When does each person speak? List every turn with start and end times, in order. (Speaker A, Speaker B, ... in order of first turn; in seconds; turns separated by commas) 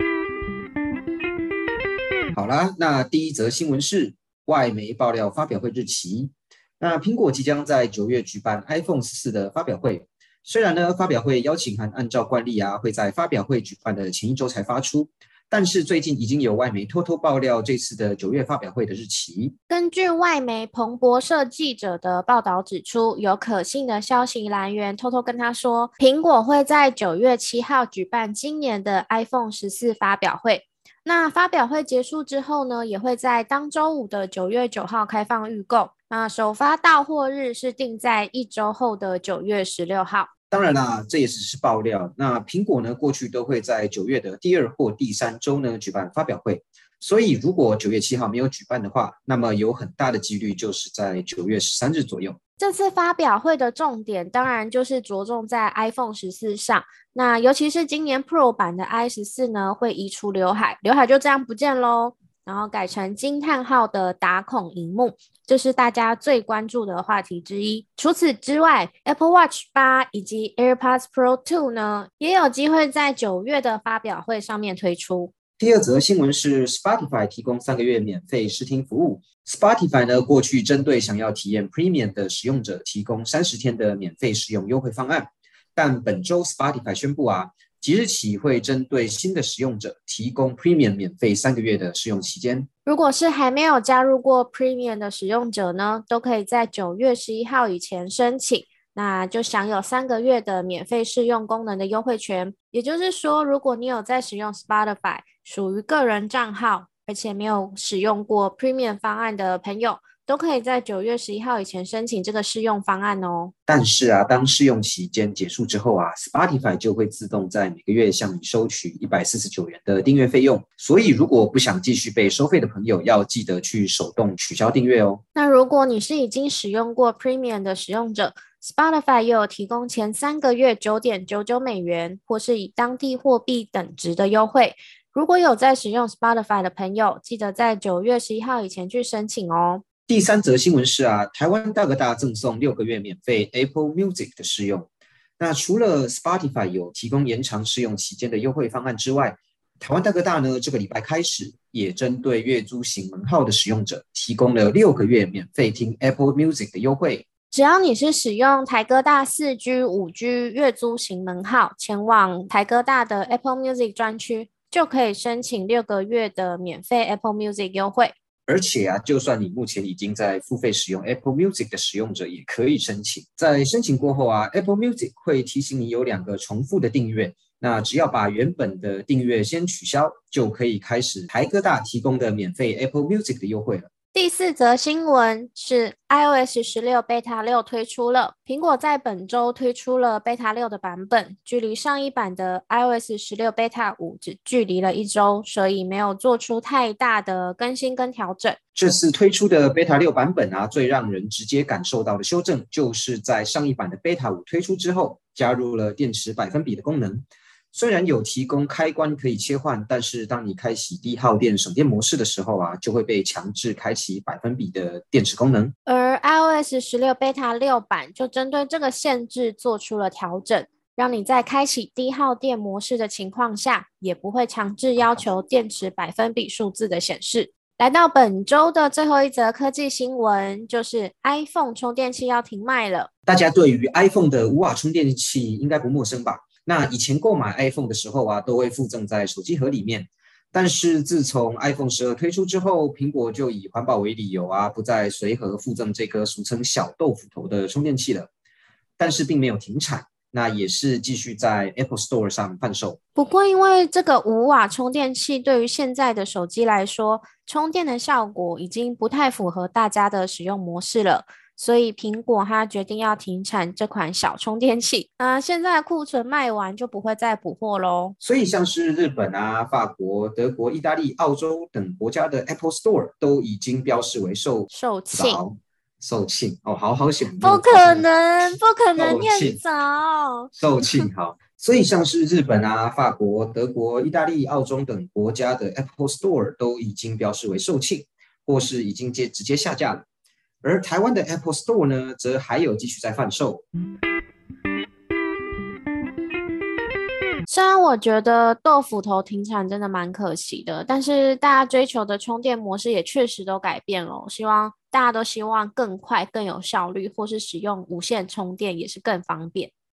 Speaker A: 2.3-19.5, Speaker B: 19.7-40.3, Speaker A: 40.5-52.4, Speaker B: 52.6-75.3, Speaker A: 75.6-92.7, Speaker B: 92.8-113.5, Speaker A: 113.7-125.2, Speaker B: 125.3-139.8, Speaker A: 140.1-144.9, Speaker A: 145.4-157.2, Speaker B: 157.5-168.1, Speaker A: 168.5-183.9, Speaker B: 184.1-198.6, Speaker A: 198.7-215.7, Speaker B: 215.8-233.1, Speaker A: 233.3-248.3, Speaker A: 249.0-253.0, Speaker B: 253.2-268.1, Speaker A: 268.2-279.6, Speaker B: 274.7-275.4, Speaker B: 277.4-281.1, Speaker A: 280.5-290.1, Speaker A: 290.6-293.6, Speaker B: 297.5-309.7